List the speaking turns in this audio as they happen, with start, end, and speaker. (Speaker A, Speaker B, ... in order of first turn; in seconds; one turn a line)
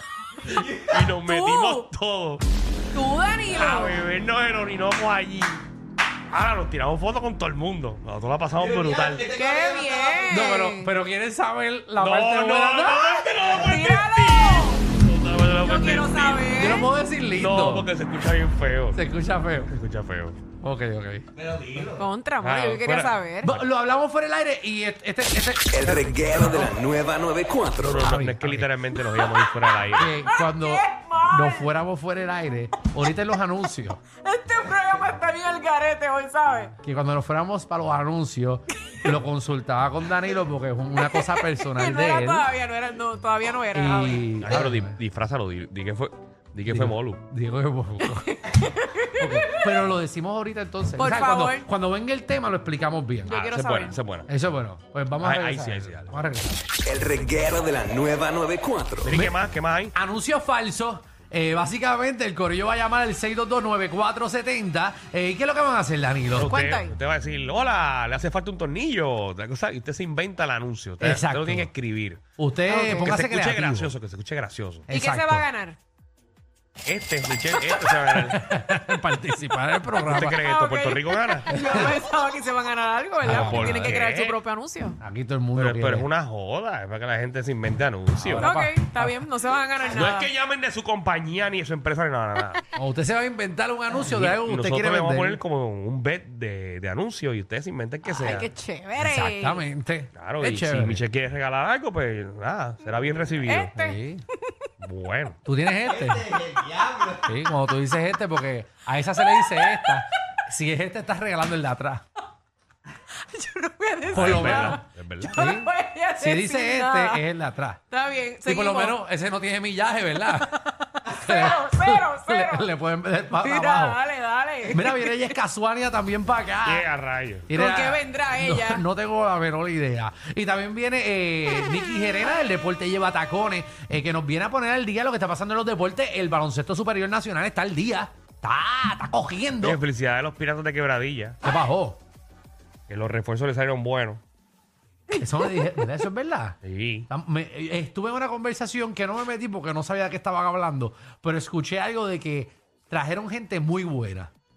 Speaker A: 0.5-0.8
Speaker B: 0.7-2.5
Speaker C: 1.2-1.9
Speaker C: 2.9-4.0
Speaker B: 3.6-5.7
Speaker B: 6.3-9.3
Speaker A: 8.6-10.2
Speaker C: 9.3-10.9
Speaker D: 10.3-13.2
Speaker B: 12.0-16.5
Speaker C: 13.5-14.8
Speaker C: 15.6-16.9
Speaker D: 16.5-17.9
Speaker B: 17.3-19.0
Speaker D: 18.9-19.7
Speaker B: 19.7-20.4
Speaker D: 20.6-21.3
Speaker A: 21.4-22.0
Speaker C: 22.0-23.5
Speaker B: 22.4-23.7
Speaker D: 23.4-26.8
Speaker E: 25.7-28.1
Speaker B: 27.8-30.1
Speaker D: 27.9-28.7
Speaker D: 29.9-34.0
Speaker C: 30.2-31.7
Speaker C: 34.2-36.7
Speaker D: 36.8-42.5
Speaker C: 38.9-39.2
Speaker C: 41.1-44.4
Speaker D: 43.7-45.0
Speaker B: 44.4-47.2
Speaker D: 46.7-48.3
Speaker C: 48.0-49.6
Speaker D: 49.2-53.4
Speaker C: 51.0-51.7
Speaker C: 53.3-54.0
Speaker B: 53.3-54.3
Speaker D: 54.3-56.7
Speaker B: 55.2-56.2
Speaker E: 56.8-59.2
Speaker B: 59.0-59.9
Speaker D: 59.1-59.4
Speaker D: 59.9-66.6
Speaker B: 66.3-74.9
Speaker C: 66.5-67.0
Speaker D: 71.0-71.7
Speaker D: 72.4-73.9
Speaker D: 74.9-75.5
Speaker C: 74.9-75.8
Speaker B: 76.8-79.0
Speaker D: 78.1-80.4
Speaker B: 80.0-81.7
Speaker C: 80.4-85.0
Speaker D: 81.5-81.9
Speaker D: 83.2-84.0
Speaker B: 83.2-84.4
Speaker D: 85.0-86.1
Speaker B: 85.5-88.5
Speaker D: 88.2-89.2
Speaker C: 88.3-90.3
Speaker B: 89.9-92.6
Speaker D: 92.8-95.4
Speaker B: 94.0-98.5
Speaker C: 98.0-99.7
Speaker D: 99.0-101.0
Speaker B: 100.2-103.7
Speaker C: 103.5-104.7
Speaker D: 103.8-104.2
Speaker B: 104.8-105.4
Speaker D: 105.5-106.4
Speaker A: 105.9-107.3
Speaker D: 107.2-112.0
Speaker C: 109.2-110.0
Speaker C: 113.1-117.3
Speaker D: 114.1-117.8
Speaker B: 114.1-115.5
Speaker C: 117.9-119.0
Speaker D: 118.5-124.0
Speaker C: 120.3-122.7
Speaker C: 123.4-125.4
Speaker D: 124.7-126.9
Speaker B: 126.6-127.5
Speaker D: 127.5-139.8
Speaker C: 127.5-128.9
Speaker B: 139.6-141.4
Speaker D: 141.4-142.0
Speaker B: 142.9-144.2
Speaker C: 145.1-145.7
Speaker D: 145.2-154.3
Speaker B: 146.6-147.1